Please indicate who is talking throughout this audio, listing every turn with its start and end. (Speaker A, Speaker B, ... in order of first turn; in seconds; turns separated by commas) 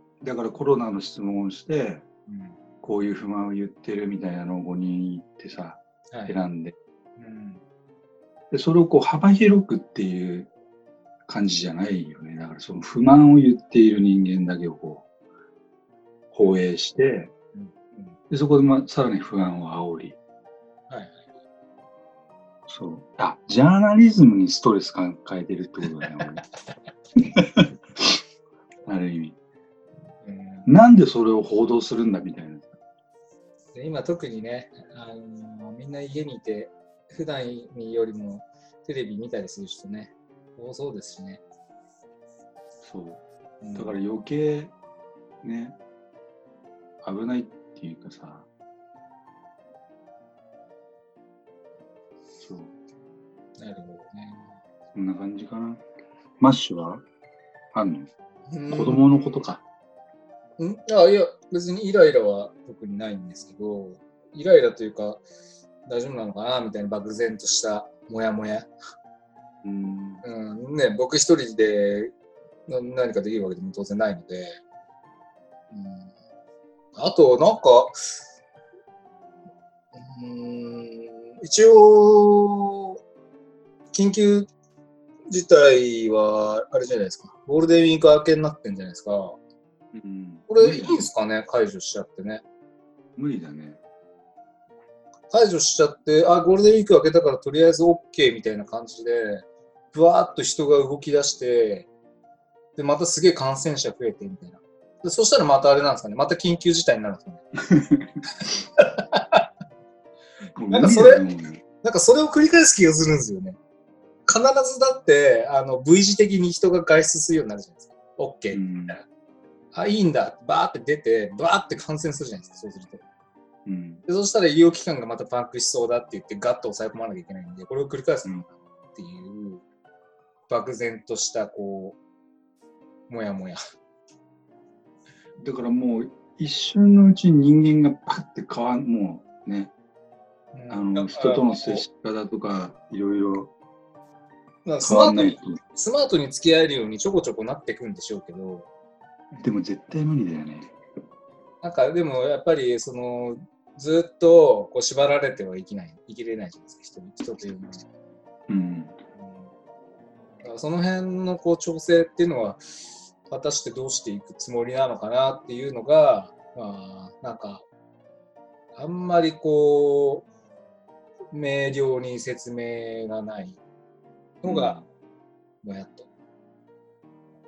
Speaker A: 0.2-2.0, Speaker B: 2.3-2.5, Speaker A: 2.8-6.7, Speaker B: 7.2-7.6, Speaker A: 8.5-10.5, Speaker A: 11.3-15.1, Speaker A: 16.3-17.3, Speaker B: 17.5-18.2, Speaker A: 18.3-20.2, Speaker B: 20.9-21.3, Speaker A: 22.7-26.4, Speaker A: 27.2-28.2, Speaker A: 28.9-29.4, Speaker B: 30.2-30.7, Speaker A: 30.7-32.8, Speaker B: 33.7-41.4, Speaker A: 42.8-43.2, Speaker B: 43.6-44.0, Speaker A: 43.7-44.7, Speaker A: 45.4-45.8, Speaker A: 47.0-48.5, Speaker A: 52.4-52.7, Speaker B: 53.6-54.5, Speaker A: 54.9-55.8, Speaker A: 56.4-57.0, Speaker A: 57.7-58.1, Speaker B: 58.5-59.4, Speaker A: 58.7-59.6, Speaker B: 60.6-65.2, Speaker B: 65.9-68.7, Speaker A: 69.6-70.2, Speaker B: 70.2-72.1, Speaker B: 72.7-74.6, Speaker B: 75.7-76.1, Speaker B: 77.0-78.0, Speaker B: 80.0-83.0, Speaker B: 83.9-84.5, Speaker B: 85.3-89.4, Speaker A: 89.9-91.1, Speaker B: 90.5-92.4, Speaker A: 93.2-93.8, Speaker B: 95.3-101.9, Speaker B: 102.8-107.4, Speaker A: 107.6-108.2, Speaker B: 108.8-109.4, Speaker A: 110.6-111.6, Speaker B: 110.7-111.3, Speaker B: 111.8-113.6, Speaker B: 114.3-119.0, Speaker A: 118.5-119.0, Speaker B: 119.7-123.0, Speaker A: 123.7-124.0, Speaker B: 124.1-129.6, Speaker B: 130.5-132.0, Speaker B: 133.1-133.6, Speaker A: 135.4-139.7, Speaker B: 140.5-141.8, Speaker A: 140.7-143.5, Speaker B: 144.7-148.7, Speaker A: 144.8-145.6, Speaker A: 149.4-150.7, Speaker B: 151.6-157.9, Speaker A: 158.5-159.0, Speaker B: 159.2-159.5, Speaker B: 160.4-162.6, Speaker B: 163.3-167.7, Speaker B: 168.8-170.3, Speaker B: 171.3-173.6, Speaker B: 174.4-174.8, Speaker A: 174.4-174.8, Speaker B: 175.6-176.1